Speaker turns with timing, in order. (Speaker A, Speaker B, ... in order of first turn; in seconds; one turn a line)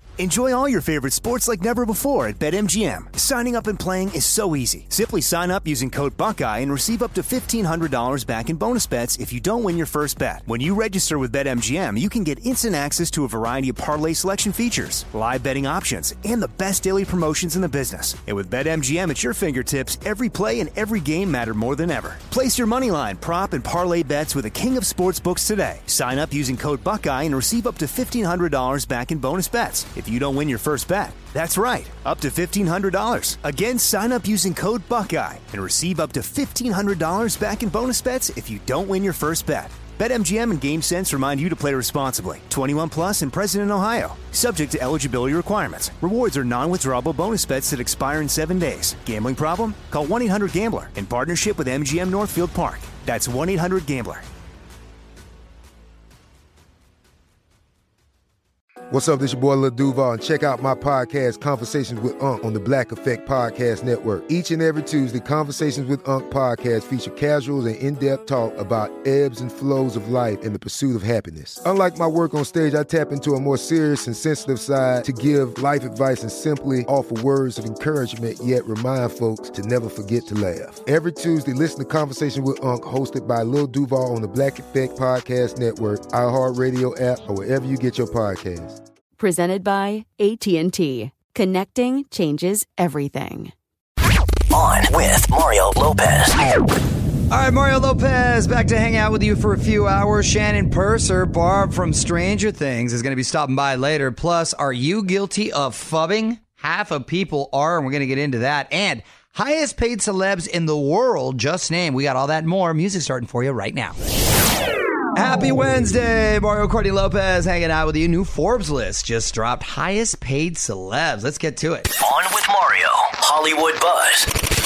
Speaker A: 0.2-54.2
Speaker B: 58.9-88.8
Speaker C: 89.2-93.4
Speaker D: 94.5-96.4
Speaker E: 97.3-114.0
Speaker E: 115.1-121.9
Speaker D: 122.0-124.3